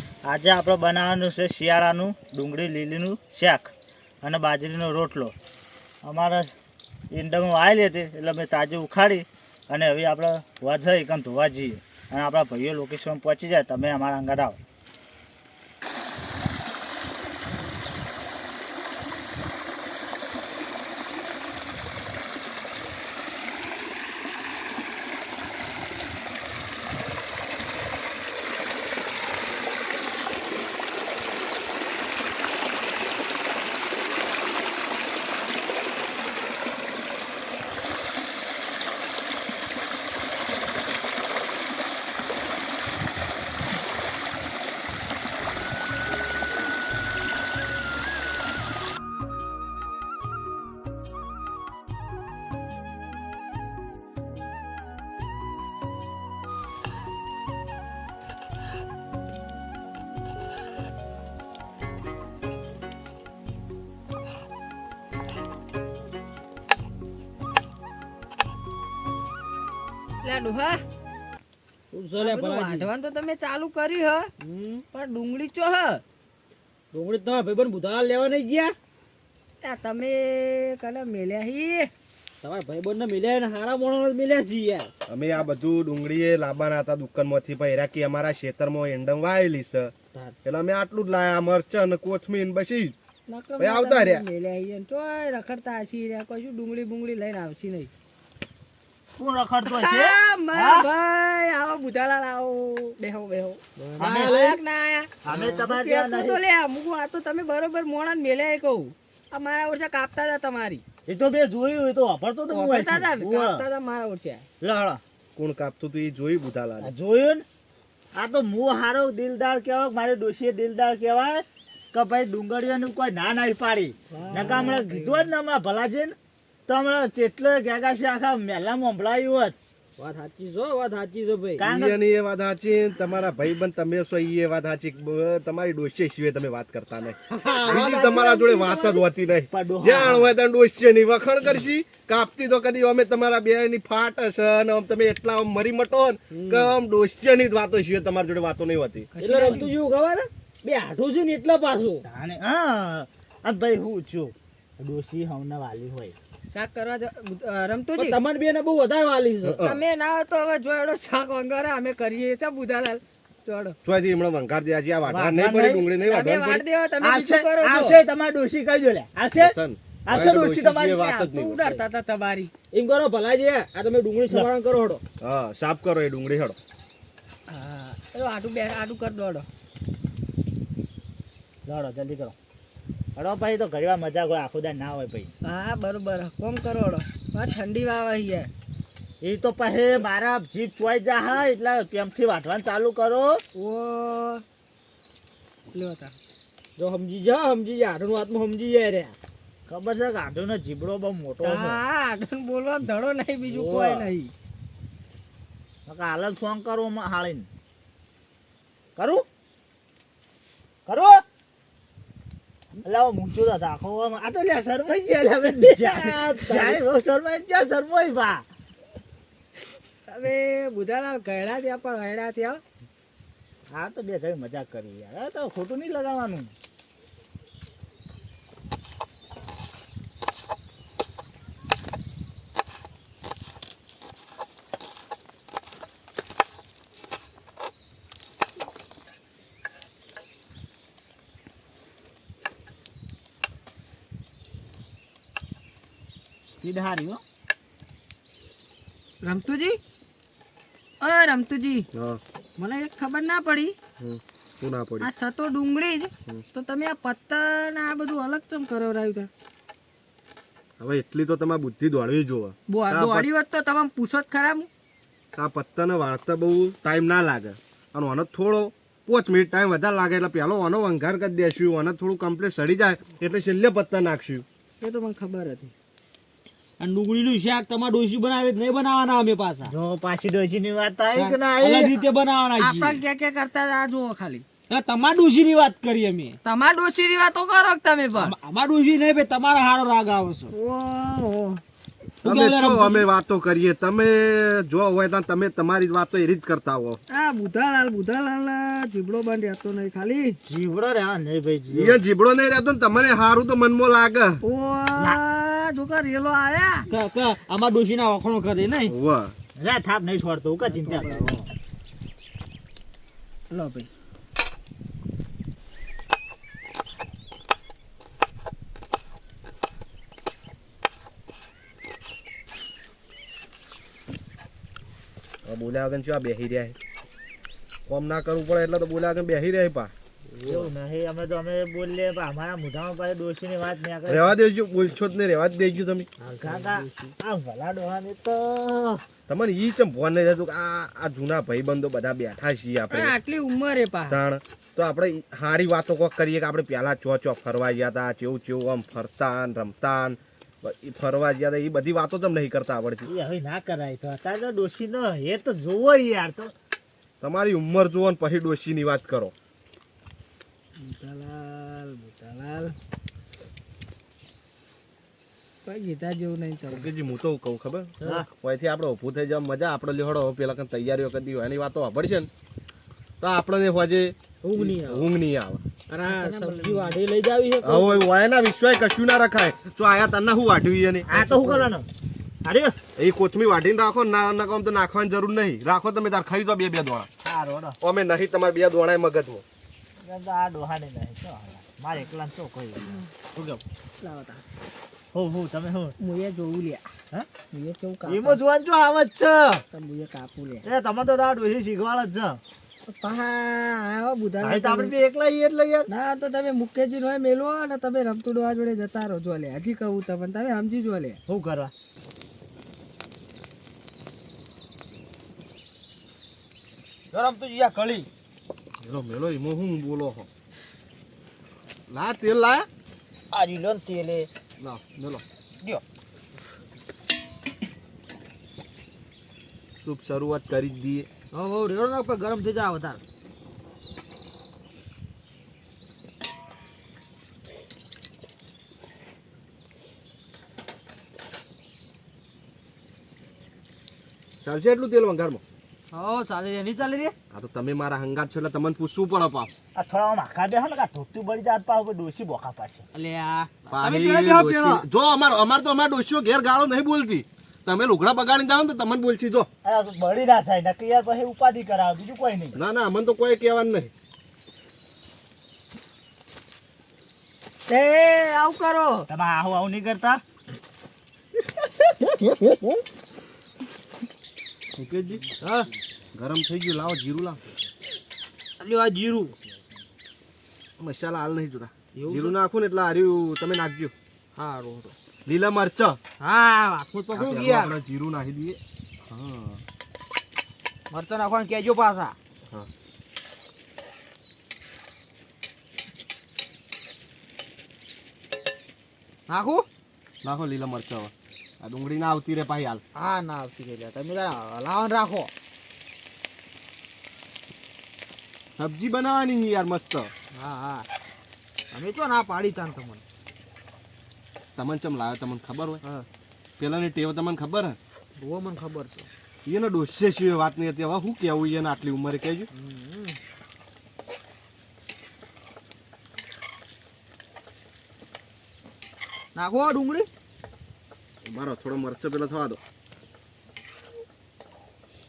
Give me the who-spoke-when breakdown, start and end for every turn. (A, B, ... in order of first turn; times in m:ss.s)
0:00.3-0:03.7 A
0:04.2-0:05.3 A
0:06.0-0:06.5 A
0:07.1-0:14.6 A
1:10.2-1:10.8 B
1:11.9-1:12.9 C
1:12.2-1:14.3 B
1:14.4-1:14.8 C
1:14.9-1:16.0 B
1:16.9-1:18.8 C
1:19.6-1:21.9 B
1:22.4-1:24.9 C
1:25.1-1:29.9 D
1:30.4-1:33.0 D
1:33.3-1:37.9 B
1:33.6-1:34.2 D
1:39.2-1:40.9 A
1:39.7-1:50.8 B
1:43.8-1:44.3 C
1:44.0-1:44.6 A
1:45.2-1:46.4 A
1:45.3-1:45.6 C
1:51.1-1:53.7 A
1:52.5-1:54.4 B
1:54.6-1:55.0 A
1:55.4-1:56.9 D
1:56.8-1:57.4 A
1:58.2-2:06.2 A
2:04.1-2:05.2 C
2:06.7-2:09.6 A
2:10.0-2:11.6 C
2:11.6-2:12.0 A
2:11.7-2:29.1 D
2:17.3-2:18.1 C
2:17.7-2:19.0 B
2:19.5-2:20.3 A
2:26.3-2:26.8 C
2:29.2-2:29.8 B
2:29.2-2:32.0 C
2:32.0-2:36.2 A
2:36.5-2:38.2 B
2:38.0-2:39.6 C
2:39.5-2:43.8 B
2:43.8-2:46.6 D
2:45.1-2:45.9 A
2:46.0-2:48.0 B
2:47.0-2:51.0 A
2:49.4-2:51.7 D
2:50.9-2:52.5 B
2:52.7-2:55.0 C
2:55.2-2:56.6 D
2:57.5-2:59.5 B
3:01.7-3:02.4 A
3:03.2-3:05.3 A
3:05.4-3:08.5 B
3:09.2-3:13.4 A
3:13.6-3:14.4 B
3:15.7-3:16.1 B
3:16.8-3:19.2 C
3:19.7-3:21.8 A
3:21.4-3:24.3 B
3:23.5-3:24.1 C
3:25.9-3:27.5 A
3:29.0-3:29.2 A
3:30.9-3:31.2 A
3:32.8-3:38.5 A
3:35.6-3:36.7 B
3:40.1-3:42.6 B
3:43.8-3:46.5 A
4:06.6-4:07.2 A
4:09.2-4:09.8 B
4:11.0-4:11.9 B
4:11.9-4:12.2 D
4:12.6-4:13.8 B
4:14.0-4:15.1 D
4:15.0-4:19.3 B
4:20.8-4:23.3 D
4:22.7-4:24.7 B
4:25.4-4:34.4 D
4:34.8-4:35.7 B
4:36.8-4:39.7 C
4:39.7-4:42.0 A
4:41.2-4:43.0 C
4:42.6-4:44.4 B
4:44.7-4:46.4 C
4:46.4-4:48.4 B
4:48.2-4:50.5 C
4:50.5-4:51.6 B
4:52.2-4:53.1 C
4:52.2-4:57.0 D
4:57.1-5:00.4 B
5:00.5-5:02.0 A
5:01.7-5:04.4 D
5:04.4-5:06.9 B
5:06.9-5:08.9 C
5:08.9-5:09.3 D
5:09.6-5:11.3 A
5:10.7-5:11.4 B
5:13.5-5:13.9 B
5:25.5-5:26.8 D
5:27.9-5:29.9 D
5:30.3-5:30.7 C
5:30.4-5:34.4 A
5:34.1-5:36.1 D
5:36.2-5:37.1 C
5:36.4-5:39.0 A
5:39.3-5:43.2 D
5:42.9-5:44.2 B
5:44.1-5:53.1 D
5:53.1-5:56.5 A
5:57.2-5:59.3 D
6:00.8-6:02.8 B
6:05.6-6:06.9 B
6:06.7-6:12.3 D
6:13.2-6:15.6 D
6:14.4-6:15.1 C
6:15.9-6:18.1 C
6:16.1-6:17.0 B
6:17.6-6:21.7 D
6:21.0-6:21.9 A
6:22.4-6:22.8 A
6:23.0-6:27.1 D
6:27.2-6:27.8 A
6:27.8-6:29.4 D
6:30.0-6:33.6 A
6:34.0-6:34.4 B
6:35.1-6:36.0 A
6:36.0-6:36.9 B
6:37.5-6:38.4 B
6:38.1-6:39.6 A
6:39.7-6:40.7 B
6:40.6-6:42.4 A
6:42.9-6:44.9 B
6:44.4-6:45.9 A
6:45.9-6:51.2 B
6:51.3-6:51.7 A
6:57.1-6:58.1 C
6:58.8-7:00.3 D
7:01.9-7:02.7 D
7:03.3-7:04.3 C
7:04.6-7:05.2 D
7:09.8-7:11.1 D
7:11.3-7:13.0 C
7:24.4-7:25.4 D
7:25.9-7:27.2 C
7:27.3-7:29.5 D
7:29.8-7:32.8 A
7:32.9-7:34.8 C
7:33.7-7:39.5 D
7:39.6-7:42.6 A
7:42.6-7:43.9 D
7:47.7-7:49.1 B
7:49.1-7:50.2 A
7:54.8-7:55.3 D
7:55.4-7:55.7 C
7:56.2-7:57.4 D
7:58.6-7:59.4 C
8:00.8-8:03.9 D
8:02.0-8:02.4 C
8:04.4-8:04.9 C
8:05.3-8:06.0 D
8:06.2-8:07.8 C
8:07.1-8:09.6 D
8:10.9-8:12.2 C
8:19.3-8:19.6 C
8:20.2-8:22.8 D
8:23.0-8:25.3 C
8:28.5-8:30.1 D
8:30.4-8:30.9 C
8:31.7-8:33.0 C
8:34.6-8:35.8 D
8:36.6-8:37.8 D
8:38.2-8:39.1 C
8:39.5-8:42.5 D
8:42.5-8:43.2 C
8:49.4-8:50.1 C
8:51.2-8:52.6 D